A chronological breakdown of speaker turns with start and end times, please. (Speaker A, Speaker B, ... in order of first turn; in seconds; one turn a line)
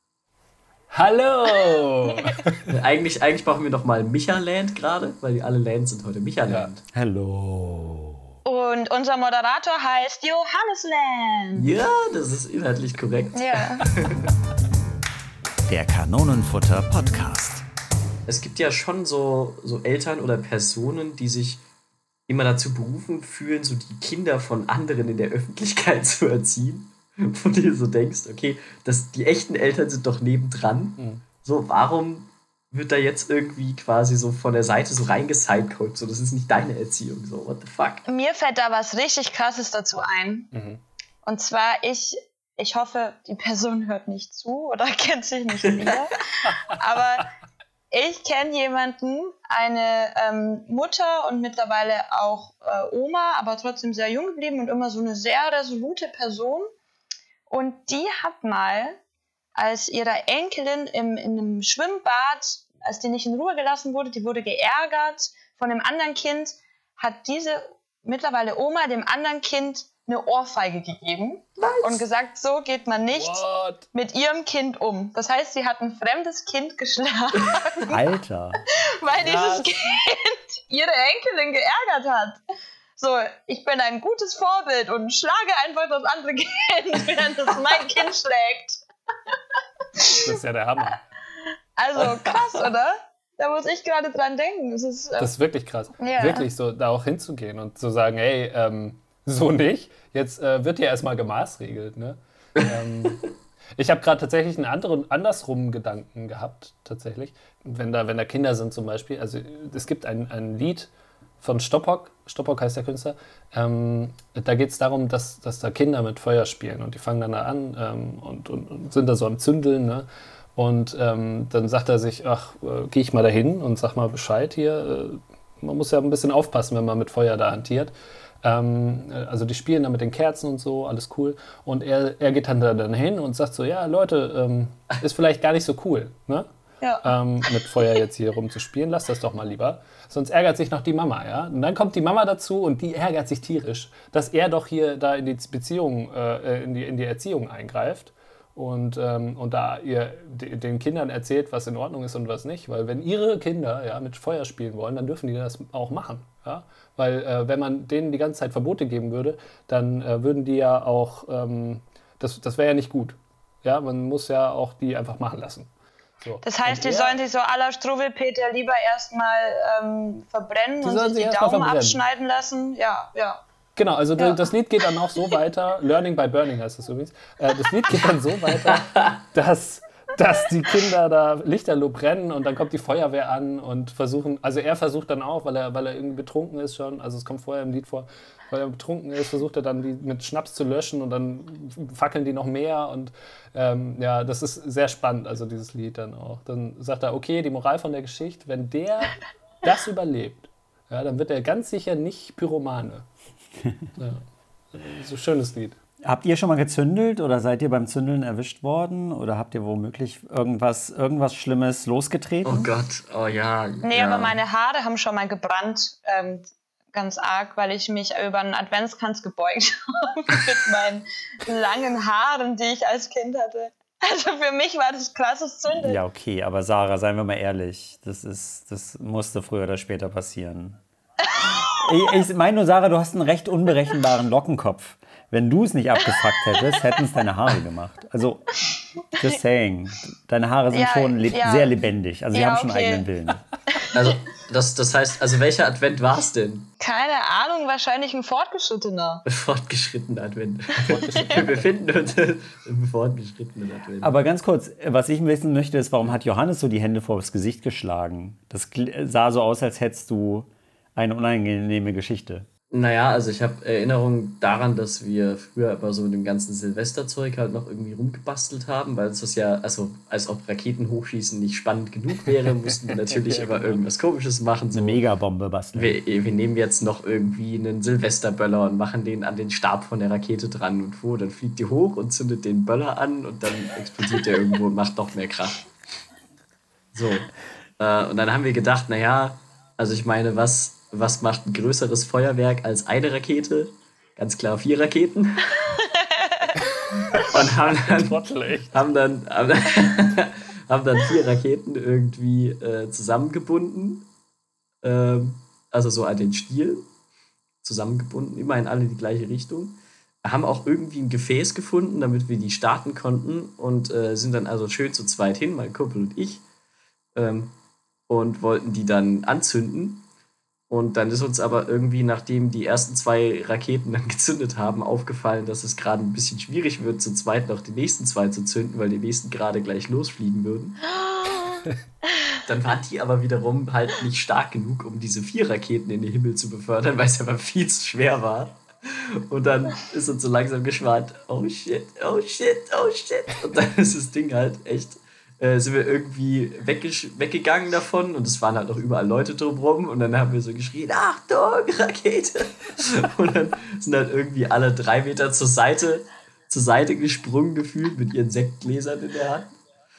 Speaker A: 0.9-2.7
Speaker B: 1.6-2.3
Speaker C: 2.7-6.8
Speaker D: 6.9-8.3
Speaker B: 8.4-11.7
Speaker C: 11.5-14.2
Speaker B: 13.3-13.9
Speaker D: 15.7-17.6
Speaker C: 18.3-21.6
Speaker C: 22.3-38.0
Speaker B: 38.0-40.5
Speaker A: 40.5-40.8
Speaker B: 41.2-47.3
Speaker C: 45.6-45.9
Speaker B: 47.9-56.7
Speaker B: 57.5-59.0
Speaker B: 59.5-78.0
Speaker C: 71.6-72.0
Speaker A: 73.1-73.9
Speaker D: 77.9-78.6
Speaker B: 79.0-82.4
Speaker A: 79.2-79.7
Speaker B: 83.0-88.8
Speaker B: 90.0-90.4
Speaker A: 90.1-91.0
Speaker B: 91.8-95.3
Speaker A: 95.2-110.9
Speaker B: 96.0-96.5
Speaker C: 102.6-103.1
Speaker A: 111.4-136.5
Speaker B: 136.8-137.1
Speaker A: 137.0-165.7
Speaker A: 166.2-167.2
Speaker B: 166.4-173.4
Speaker A: 170.8-172.0
Speaker A: 173.8-203.1
Speaker B: 174.2-174.5
Speaker C: 178.7-179.2
Speaker A: 204.7-205.8
Speaker D: 206.0-212.7
Speaker C: 212.4-214.4
Speaker B: 213.8-226.0
Speaker D: 225.8-230.8
Speaker B: 231.4-231.8
Speaker D: 231.4-238.6
Speaker B: 236.2-236.8
Speaker D: 239.2-243.4
Speaker B: 240.7-241.8
Speaker B: 242.3-243.1
Speaker B: 243.8-244.1
Speaker C: 243.9-246.7
Speaker B: 246.8-249.2
Speaker C: 249.3-254.2
Speaker A: 250.8-251.7
Speaker D: 254.0-262.5
Speaker C: 262.7-275.0
Speaker A: 272.9-273.8
Speaker D: 274.7-276.0
Speaker C: 275.7-285.6
Speaker C: 286.9-295.5
Speaker B: 295.7-296.5
Speaker A: 297.1-298.8
Speaker C: 297.1-304.1
Speaker C: 304.8-306.9
Speaker C: 307.6-316.4
Speaker C: 317.1-317.5
Speaker C: 318.1-320.1
Speaker C: 320.7-330.8
Speaker B: 331.1-331.6
Speaker C: 332.4-359.5